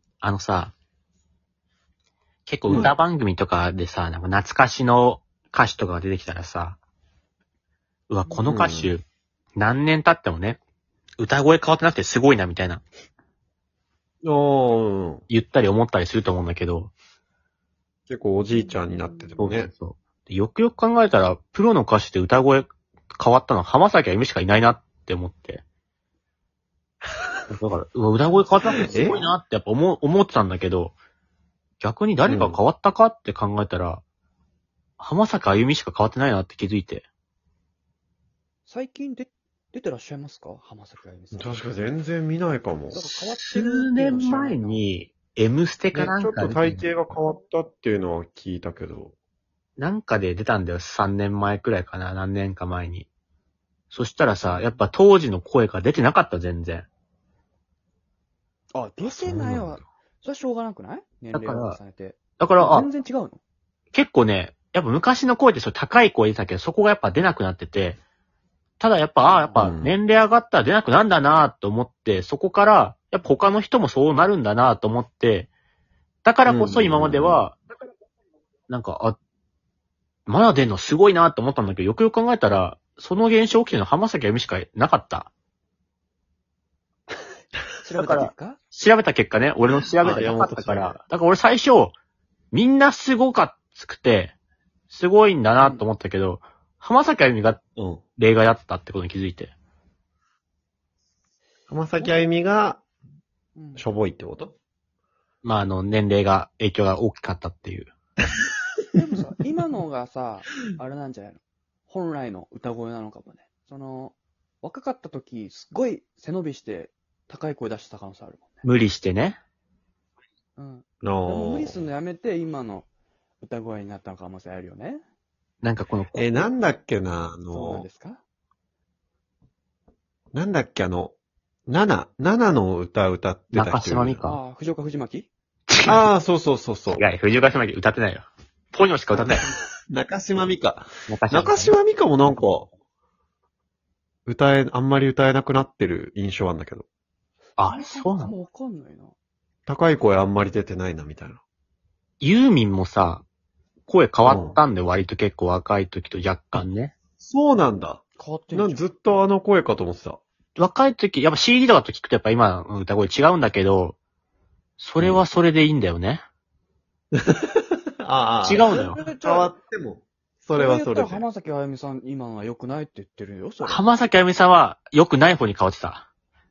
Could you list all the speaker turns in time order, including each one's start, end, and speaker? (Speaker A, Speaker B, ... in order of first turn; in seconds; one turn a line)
Speaker A: 0.2-0.7
Speaker A: 2.5-6.8
Speaker B: 2.6-2.9
Speaker A: 8.1-9.0
Speaker B: 8.5-8.9
Speaker A: 9.6-10.6
Speaker A: 11.2-12.8
Speaker B: 14.2-15.2
Speaker A: 15.3-16.9
Speaker B: 18.1-19.7
Speaker C: 18.6-19.4
Speaker A: 19.4-25.6
Speaker A: 27.5-30.9
Speaker C: 28.8-29.1
Speaker B: 28.9-29.3
Speaker A: 31.8-34.0
Speaker B: 32.3-32.6
Speaker A: 35.0-37.1
Speaker C: 38.7-41.6
Speaker B: 41.3-43.0
Speaker C: 42.9-44.8
Speaker A: 43.4-46.9
Speaker B: 45.9-49.1
Speaker A: 49.8-53.1
Speaker A: 53.9-56.9
Speaker C: 58.7-63.4
Speaker B: 59.2-59.8
Speaker A: 61.3-61.8
Speaker A: 62.4-62.9
Speaker A: 63.9-68.0
Speaker A: 68.8-75.5
Speaker C: 69.2-69.7
Speaker B: 69.6-70.0
Speaker A: 76.2-77.6
Speaker B: 76.5-77.5
Speaker A: 78.7-79.2
Speaker A: 80.3-85.3
Speaker C: 87.8-88.6
Speaker A: 88.0-91.9
Speaker B: 90.0-91.0
Speaker A: 92.5-94.3
Speaker A: 94.9-97.6
Speaker C: 95.6-95.8
Speaker B: 97.8-98.0
Speaker A: 98.2-99.5
Speaker B: 101.7-102.8
Speaker C: 103.5-103.8
Speaker B: 103.8-104.5
Speaker A: 105.4-107.9
Speaker C: 109.0-118.7
Speaker A: 118.6-119.4
Speaker C: 120.6-122.9
Speaker B: 121.0-121.9
Speaker C: 123.4-125.0
Speaker A: 125.6-126.5
Speaker B: 126.2-127.9
Speaker C: 127.5-128.2
Speaker B: 130.3-131.1
Speaker B: 131.7-134.3
Speaker A: 133.5-134.4
Speaker C: 134.2-135.3
Speaker A: 135.7-136.1
Speaker B: 135.8-137.0
Speaker A: 136.9-139.4
Speaker B: 139.1-142.7
Speaker A: 141.1-141.7
Speaker B: 144.3-146.9
Speaker A: 147.6-148.3
Speaker C: 147.7-149.1
Speaker B: 149.7-151.4
Speaker A: 152.2-153.2
Speaker A: 153.9-156.9
Speaker B: 154.2-154.6
Speaker B: 157.2-160.2
Speaker C: 158.2-158.8
Speaker A: 160.6-164.0
Speaker A: 164.8-166.2
Speaker B: 165.0-165.2
Speaker B: 167.2-171.2
Speaker A: 168.4-169.0
Speaker C: 168.7-169.6
Speaker C: 170.5-173.8
Speaker A: 173.6-176.1